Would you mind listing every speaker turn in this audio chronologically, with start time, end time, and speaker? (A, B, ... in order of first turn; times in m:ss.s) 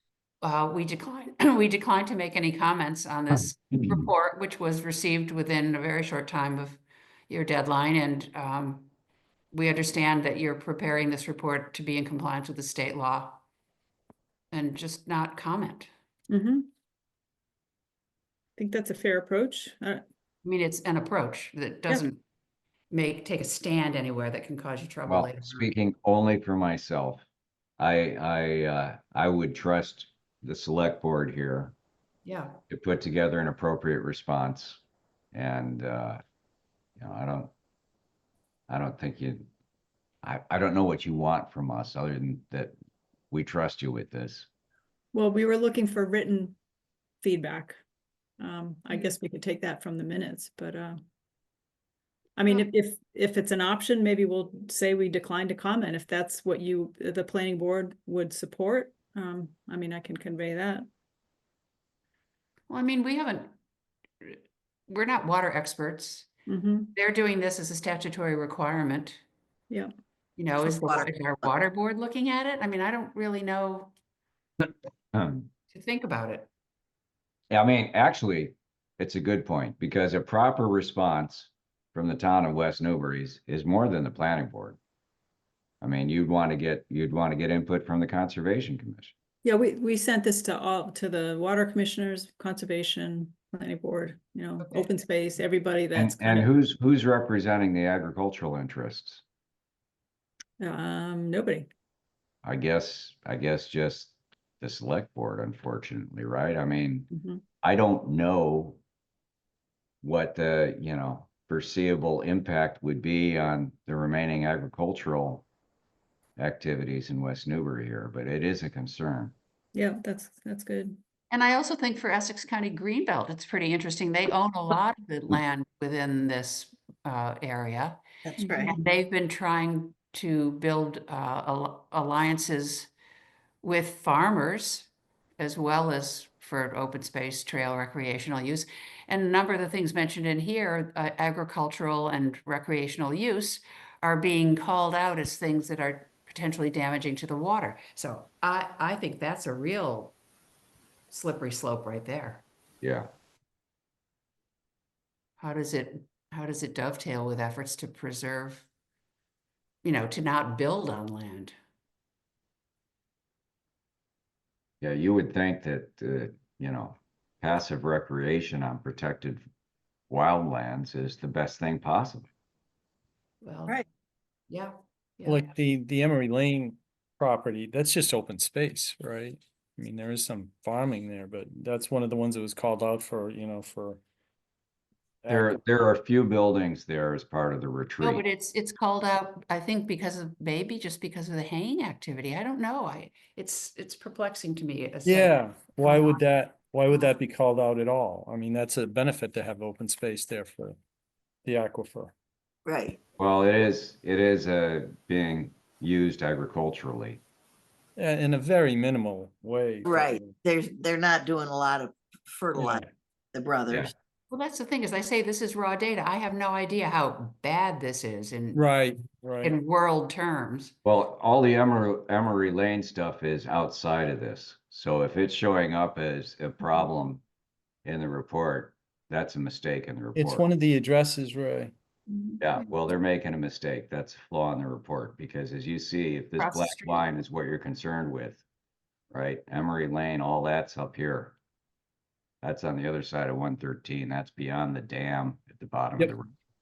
0:00.4-0:08.9 A
0:09.5-0:13.4 A
0:14.5-0:15.9 A
0:16.3-0:16.6 B
0:18.6-0:20.0 B
0:20.4-0:22.2 A
0:22.9-0:25.7 A
0:25.1-0:27.2 C
0:27.8-0:31.7 C
0:32.2-0:32.6 A
0:32.7-0:34.8 C
0:35.3-0:36.2 C
0:37.0-0:37.5 C
0:38.7-0:39.5 C
0:40.2-0:42.7 C
0:43.3-0:44.5 C
0:45.1-0:46.5 B
0:47.2-0:47.8 B
0:48.4-0:51.0 B
0:52.4-1:00.9 B
1:02.7-1:03.5 A
1:04.2-1:06.3 A
1:06.5-1:06.9 B
1:06.9-1:09.2 A
1:10.4-1:13.9 A
1:10.6-1:11.4 D
1:15.1-1:15.5 C
1:15.7-1:16.5 A
1:17.5-1:24.8 C
1:25.8-1:29.1 C
1:29.4-1:36.4 B
1:34.6-1:34.9 A
1:36.0-1:39.2 C
1:40.6-1:41.7 B
1:42.4-1:47.1 C
1:47.1-1:47.4 B
1:47.6-1:48.8 C
1:50.0-1:55.4 C
1:56.4-1:59.3 C
1:59.7-2:01.0 B
2:01.3-2:08.0 A
2:08.2-2:08.8 D
2:08.4-2:08.7 B
2:08.6-2:12.9 A
2:13.6-2:30.2 A
2:31.1-2:32.4 A
2:32.8-2:33.1 C
2:35.4-2:38.7 A
2:39.8-2:41.5 A
2:44.8-2:49.4 C
2:50.1-2:52.3 C
2:53.4-2:53.8 A
2:54.5-2:55.5 A
2:55.2-3:04.0 E
3:05.2-3:05.6 E
3:05.3-3:08.2 C
3:08.0-3:16.2 A
3:15.0-3:20.8 E
3:21.4-3:22.1 E
3:22.6-3:23.0 D
3:23.2-3:27.2 C
3:28.0-3:30.4 E
3:29.8-3:33.9 D
3:32.5-3:32.9 E
3:34.3-3:38.6 A
3:38.5-3:39.5 E
3:39.4-3:40.7 A
3:40.8-3:47.2 C
3:47.8-3:50.5 C
3:50.2-3:51.7 E
3:52.1-3:52.7 A
3:52.4-3:58.4 C
3:56.4-3:57.1 A
3:59.1-4:01.4 C
4:02.4-4:06.3 C